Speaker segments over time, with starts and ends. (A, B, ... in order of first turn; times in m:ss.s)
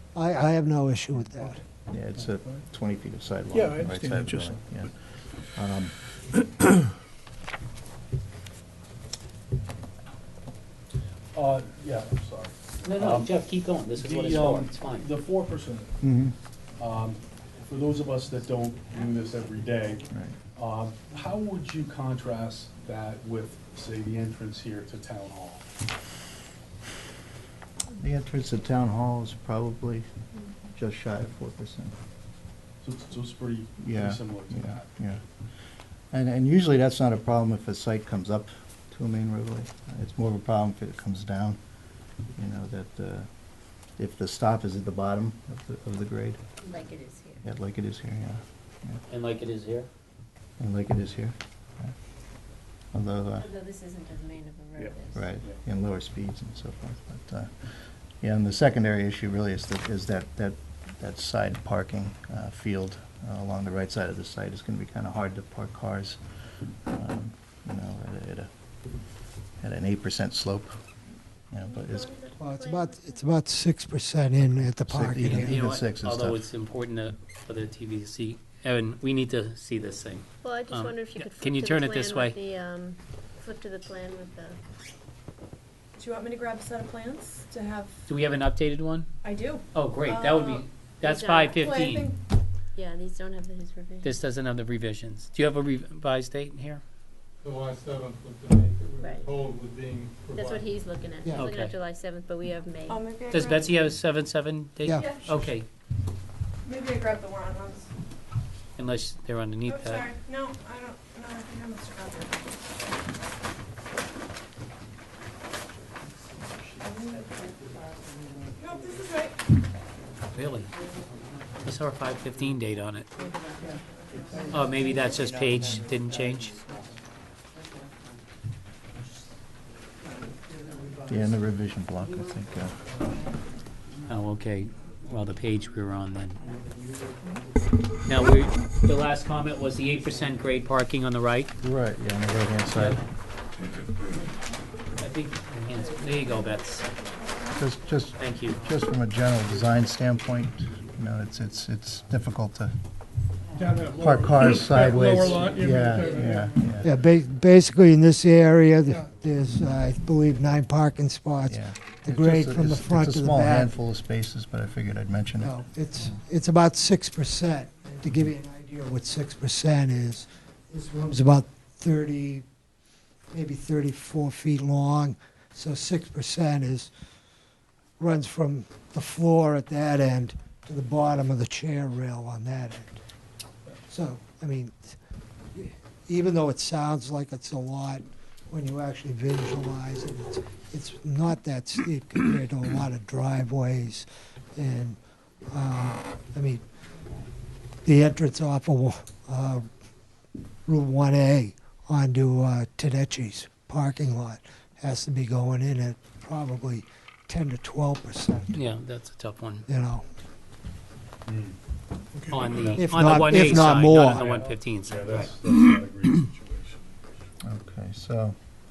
0:00.1-0:01.6 A
0:01.9-0:06.1 B
0:03.6-0:04.5 C
0:11.3-0:13.4 D
0:12.8-0:15.1 E
0:14.0-0:16.0 D
0:16.0-0:16.4 B
0:16.8-0:25.7 D
0:20.1-0:20.4 B
0:28.0-0:30.1 B
0:30.8-0:31.9 B
0:32.8-0:34.9 D
0:33.8-0:35.2 B
0:36.1-0:41.6 B
0:42.4-0:43.3 B
0:44.0-0:46.4 B
0:46.6-0:47.4 F
0:47.4-0:49.0 B
0:49.1-0:49.9 E
0:50.6-0:51.9 B
0:52.9-0:53.5 B
0:53.4-0:55.3 F
0:54.8-0:55.6 D
0:55.1-1:06.2 B
1:06.8-1:08.5 B
1:09.6-1:10.8 B
1:11.5-1:12.1 B
1:11.7-1:13.2 F
1:12.4-1:15.6 A
1:14.9-1:16.5 B
1:15.3-1:22.4 E
1:20.4-1:24.6 F
1:26.0-1:28.1 G
1:28.1-1:29.1 E
1:29.2-1:30.7 G
1:29.7-1:32.1 E
1:31.0-1:31.7 F
1:31.6-1:32.2 G
1:32.7-1:34.2 F
1:34.0-1:36.8 E
1:37.4-1:40.8 H
1:39.0-1:39.3 F
1:40.3-1:43.1 F
1:41.3-1:41.8 E
1:42.9-1:43.7 G
1:43.3-1:45.7 E
1:45.0-1:45.5 G
1:46.6-1:47.9 G
1:48.8-1:50.2 E
1:49.6-1:52.7 G
1:56.8-1:57.2 G
1:58.6-1:59.4 G
2:00.3-2:00.7 E
2:01.6-2:03.1 E
2:04.5-2:06.6 E
2:11.1-2:12.9 B
2:14.1-2:16.4 E
2:18.0-2:21.5 E
2:21.6-2:23.0 B
2:22.8-2:23.0 E
2:25.0-2:26.9 E
2:27.6-2:32.8 B
2:28.2-2:28.6 E
2:33.6-2:36.5 C
2:33.9-2:36.9 B
2:36.8-2:43.7 A
2:41.5-2:45.6 B
2:45.4-2:52.4 A
2:53.3-2:56.9 A
2:58.0-3:03.0 A
3:03.9-3:05.0 A
3:05.6-3:16.6 A
3:17.8-3:19.7 A
3:20.7-3:28.7 A
3:28.5-3:29.6 E
3:29.7-3:30.1 A
3:31.3-3:31.6 D
3:32.3-3:35.3 E
3:32.6-3:37.0 D
3:32.8-3:34.4 A
3:37.4-3:38.4 B